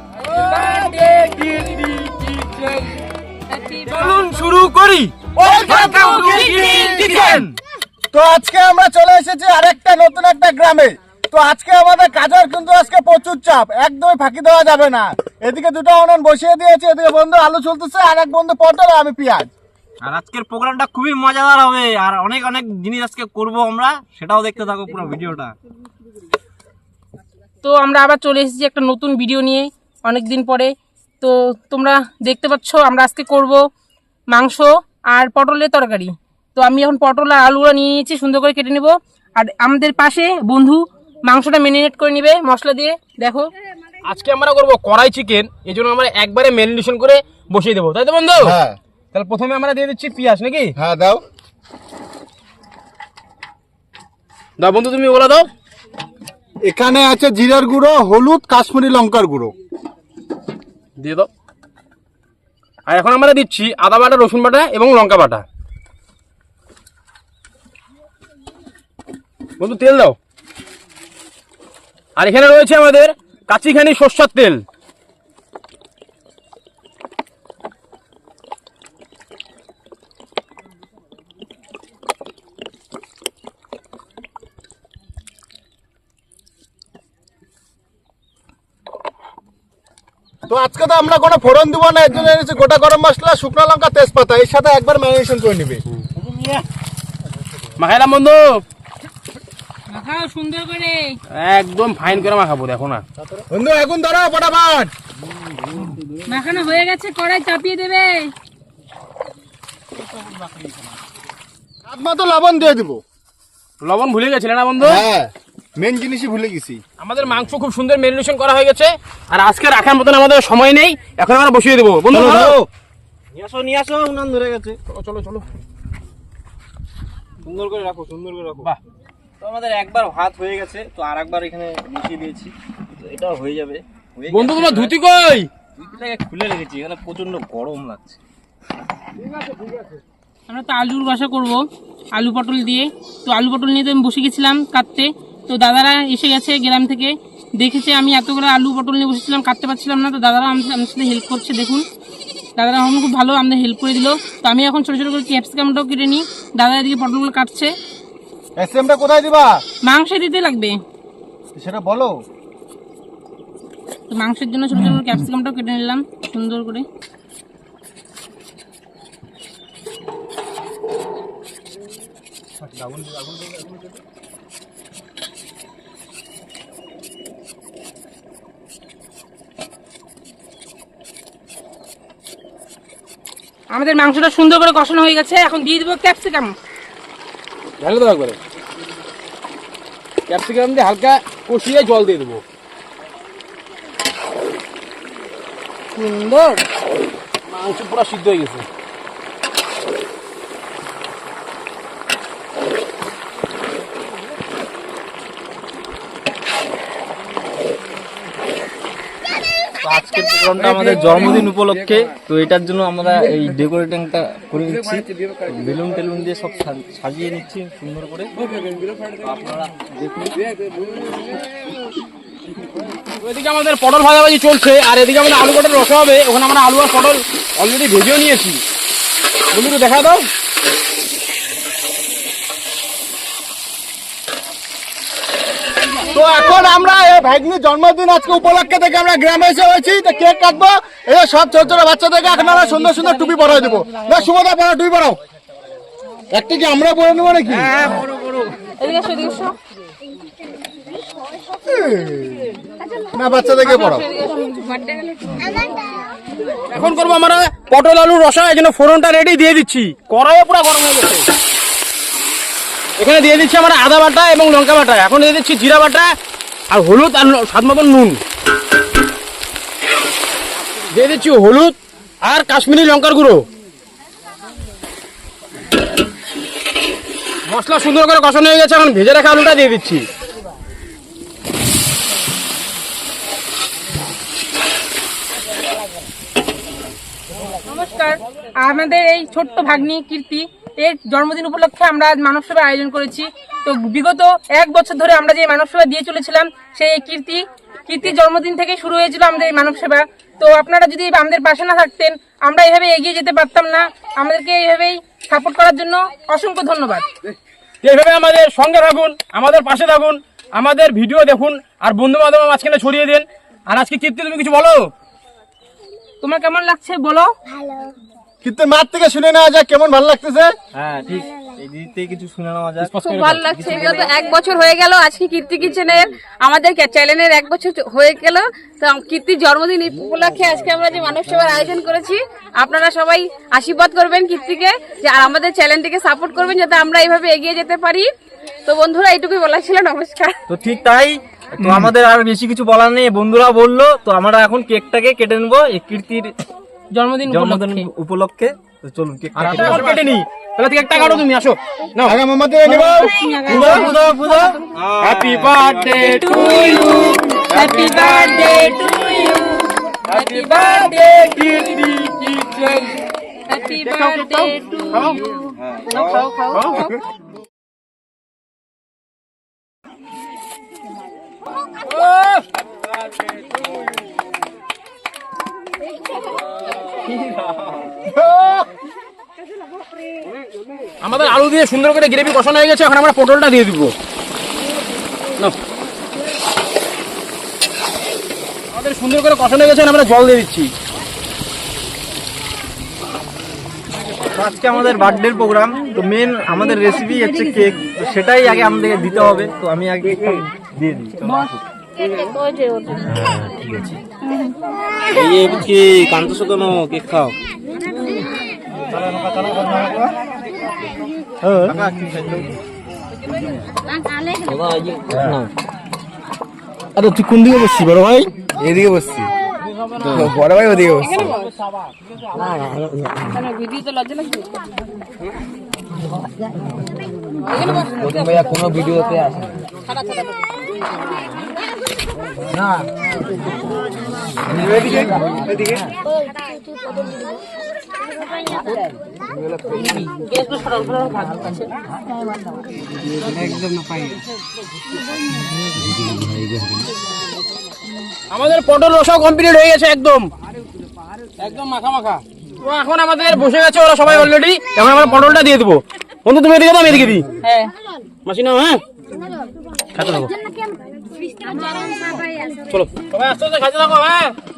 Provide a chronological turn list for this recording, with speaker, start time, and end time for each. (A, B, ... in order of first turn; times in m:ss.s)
0:00.3-0:01.3 A
0:00.4-0:02.8 B
0:03.5-0:04.2 A
0:03.9-0:07.4 B
0:05.4-0:07.5 C
0:05.7-0:07.1 A
0:06.8-0:07.5 D
0:08.1-0:19.5 C
0:20.0-0:25.6 D
0:27.6-0:33.6 A
0:34.3-0:43.5 A
0:44.0-0:48.6 B
0:48.4-0:48.8 C
0:49.1-0:50.7 B
0:50.8-0:51.2 C
0:54.6-0:55.5 B
0:56.6-0:59.5 C
1:01.0-1:01.3 B
1:02.9-1:05.4 B
1:09.6-1:10.2 B
1:12.2-1:14.6 B
1:30.5-1:35.8 C
1:36.2-1:36.6 B
1:37.8-1:38.6 B
1:39.9-1:41.2 A
1:41.3-1:43.0 B
1:43.5-1:44.9 C
1:46.2-1:48.3 A
1:51.8-1:53.0 C
1:53.8-1:55.0 B
1:54.8-1:56.8 C
1:57.0-2:02.6 B
2:02.1-2:02.6 D
2:02.2-2:02.6 C
2:03.3-2:04.8 D
2:04.9-2:05.4 B
2:07.4-2:08.7 D
2:09.4-2:14.9 D
2:14.3-2:15.5 B
2:15.8-2:18.2 D
2:20.5-2:21.6 A
2:22.1-2:31.8 A
2:32.6-2:37.7 A
2:38.6-2:39.6 C
2:39.8-2:40.8 A
2:41.5-2:42.2 C
2:44.1-2:46.8 A
2:52.6-2:53.8 C
3:03.7-3:06.5 A
3:07.8-3:08.4 B
3:10.3-3:12.4 B
3:15.9-3:16.6 A
3:17.5-3:18.6 B
3:29.8-3:38.3 D
3:39.2-3:40.3 D
3:43.2-3:48.6 B
3:49.5-3:50.3 B
3:56.1-4:05.2 C
4:06.3-4:07.8 C
4:08.8-4:09.5 A
4:08.8-4:09.5 E
4:11.6-4:12.5 C
4:13.1-4:14.1 C
4:14.0-4:15.8 E
4:16.7-4:21.2 B
4:23.0-4:26.1 B
4:26.7-4:28.2 B
4:30.9-4:33.4 B
4:37.5-4:40.0 B
4:47.6-5:07.0 A
5:07.8-5:14.9 B
5:16.2-5:17.3 A
5:18.4-5:20.5 C
5:20.7-5:24.1 D
5:22.8-5:24.1 B
5:23.0-5:38.1 E
5:38.6-5:40.4 E
5:40.5-5:46.3 D
5:47.0-5:47.8 A
5:47.3-5:50.1 D
5:49.3-5:52.2 B
5:52.0-5:53.1 C
5:52.8-5:54.0 A
5:53.5-5:56.0 D
5:55.0-5:58.6 B
5:56.0-6:01.1 A
6:00.1-6:03.0 B
6:03.5-6:05.2 A
6:03.7-6:05.2 B
6:05.6-6:06.3 D
6:05.9-6:06.9 B
6:12.0-6:12.4 B
6:17.2-6:17.5 D
6:21.0-6:23.9 B
6:28.7-6:30.7 B
6:34.3-6:41.6 D
6:42.2-6:43.0 E
6:43.1-6:43.9 B
6:43.6-6:43.9 D
6:45.1-6:47.4 D
6:49.0-6:50.0 D
6:51.4-6:52.5 D
6:51.7-6:52.0 C
6:54.4-6:55.5 D
6:57.0-6:59.3 C
6:57.8-6:58.3 D
6:59.8-7:00.3 B
7:00.0-7:00.3 D
7:00.1-7:01.3 C
7:03.3-7:04.4 A
7:07.8-7:09.5 B
7:09.9-7:10.2 A
7:14.7-7:15.0 B
7:20.1-7:21.6 A
7:28.3-7:30.3 B
7:31.4-7:37.2 B
7:37.4-7:37.7 A
7:38.2-7:38.8 B
7:39.9-7:40.3 B
7:42.7-7:44.3 B